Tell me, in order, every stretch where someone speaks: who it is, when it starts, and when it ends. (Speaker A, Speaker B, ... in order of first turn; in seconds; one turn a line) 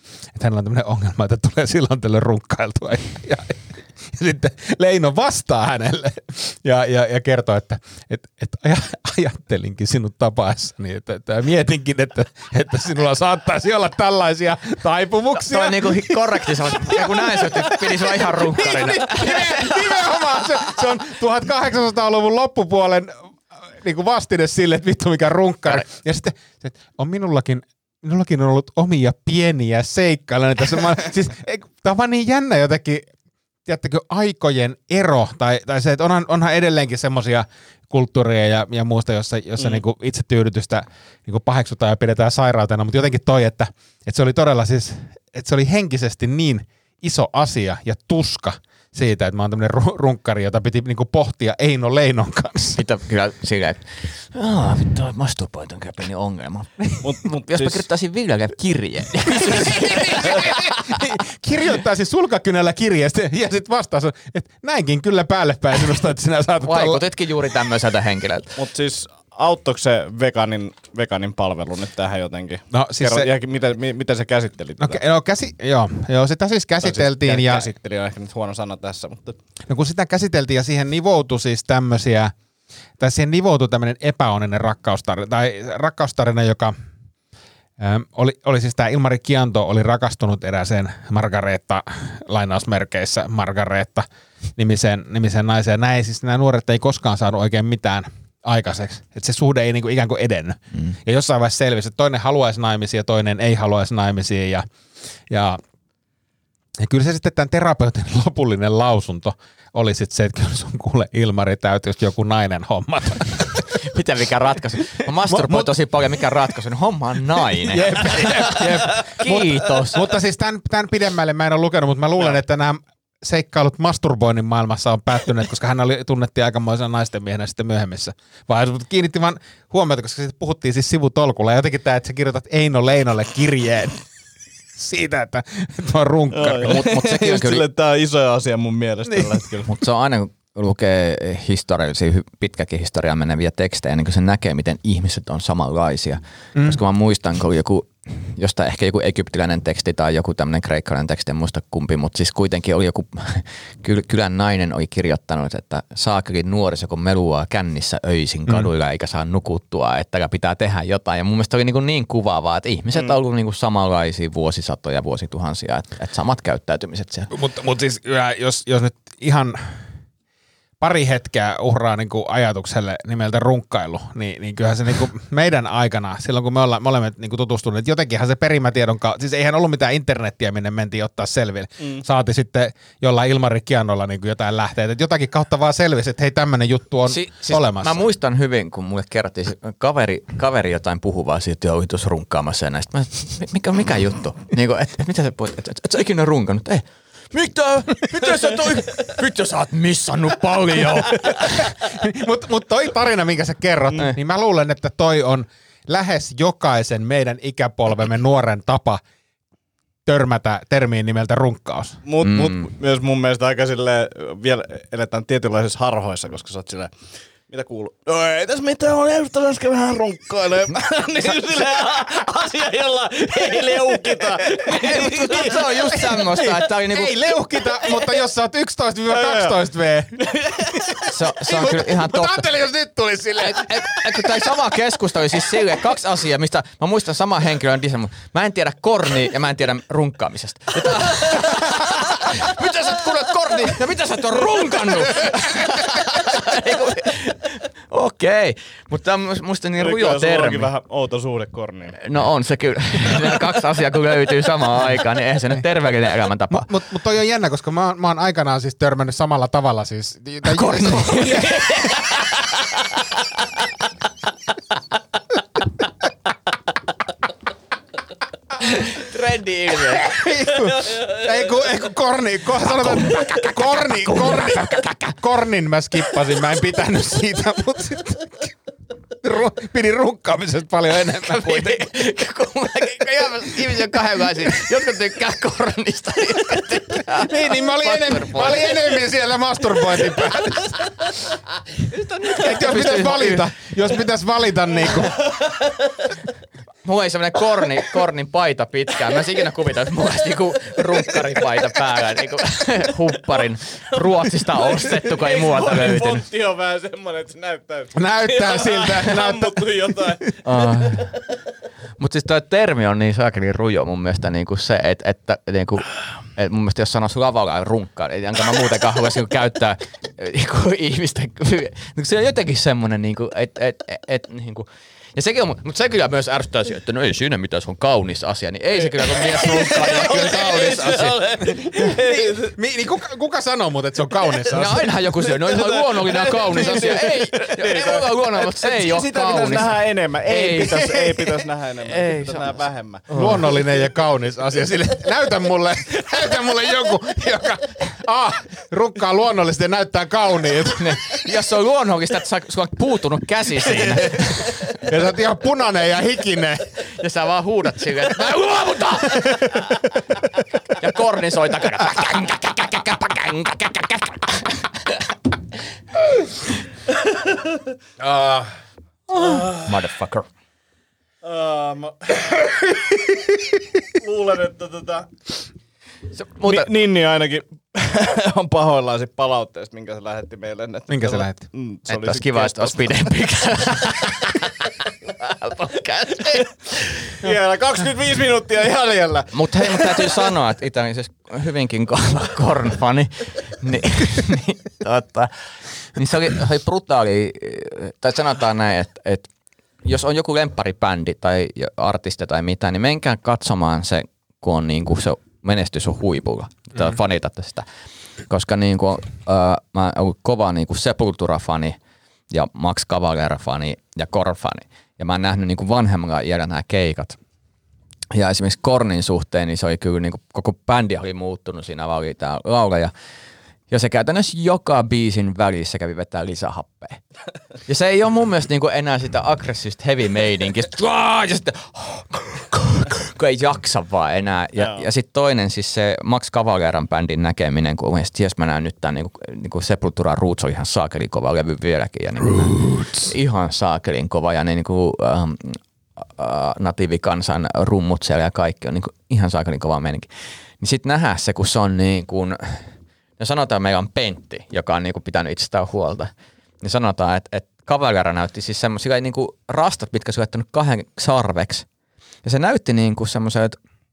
Speaker A: 0.3-23.1
Speaker B: 15.4-20.2
Speaker A: 23.7-33.1
Speaker A: 33.7-52.8
Speaker B: 52.8-61.0
Speaker C: 57.0-57.9
Speaker A: 59.3-67.0
Speaker B: 66.6-68.6
Speaker C: 68.6-75.0
Speaker A: 72.7-73.3
Speaker A: 74.8-77.7
Speaker C: 76.8-79.4
Speaker A: 79.7-82.3
Speaker A: 83.0-86.8
Speaker A: 87.8-94.1
Speaker A: 94.6-104.7
Speaker A: 105.3-105.6
Speaker A: 106.8-113.8
Speaker B: 113.7-120.0
Speaker A: 115.0-115.8
Speaker A: 117.7-134.0
Speaker A: 134.8-136.8
Speaker C: 136.3-139.7
Speaker B: 136.6-137.6
Speaker A: 139.1-139.4
Speaker B: 139.7-167.3
Speaker A: 146.6-146.8
Speaker A: 167.3-169.8
Speaker A: 170.8-188.0
Speaker B: 187.1-201.7
Speaker A: 201.4-209.0
Speaker A: 210.1-212.0
Speaker C: 212.1-216.9
Speaker B: 212.2-212.6
Speaker C: 217.5-225.6
Speaker B: 224.7-227.2
Speaker A: 224.7-230.3
Speaker C: 227.8-228.0
Speaker C: 229.1-229.6
Speaker C: 230.2-231.1
Speaker B: 231.1-232.4
Speaker A: 231.4-234.4
Speaker B: 233.5-250.7
Speaker C: 249.8-252.0
Speaker B: 252.0-256.7
Speaker A: 256.5-261.9
Speaker B: 260.5-263.0
Speaker B: 268.6-270.2
Speaker A: 269.9-278.5
Speaker B: 272.6-274.8
Speaker A: 279.2-281.9
Speaker B: 281.2-288.9
Speaker A: 283.7-284.7
Speaker A: 287.1-291.2
Speaker B: 291.9-293.4
Speaker A: 292.4-295.2
Speaker B: 296.8-306.2
Speaker C: 305.0-310.4
Speaker A: 308.0-310.2
Speaker B: 310.4-311.1
Speaker B: 312.0-331.9
Speaker C: 328.8-332.6
Speaker A: 331.7-334.9
Speaker C: 334.5-343.6
Speaker B: 334.5-341.2
Speaker B: 341.9-343.5
Speaker A: 343.1-351.2
Speaker B: 350.8-354.8
Speaker A: 353.6-356.8
Speaker B: 356.9-359.6
Speaker A: 359.1-359.8
Speaker B: 360.7-364.9
Speaker B: 369.1-370.3
Speaker C: 369.2-369.6
Speaker C: 371.2-373.1
Speaker C: 373.9-375.3
Speaker B: 376.2-376.7
Speaker C: 376.4-383.1
Speaker A: 380.9-381.4
Speaker B: 381.9-386.9
Speaker C: 387.2-390.3
Speaker B: 389.3-395.3
Speaker B: 395.9-399.3
Speaker B: 399.8-407.6
Speaker B: 408.3-411.8
Speaker B: 412.3-417.2
Speaker B: 418.1-422.9
Speaker B: 423.7-427.0
Speaker B: 427.7-450.1
Speaker C: 434.6-434.8
Speaker B: 450.6-461.7
Speaker B: 462.2-463.6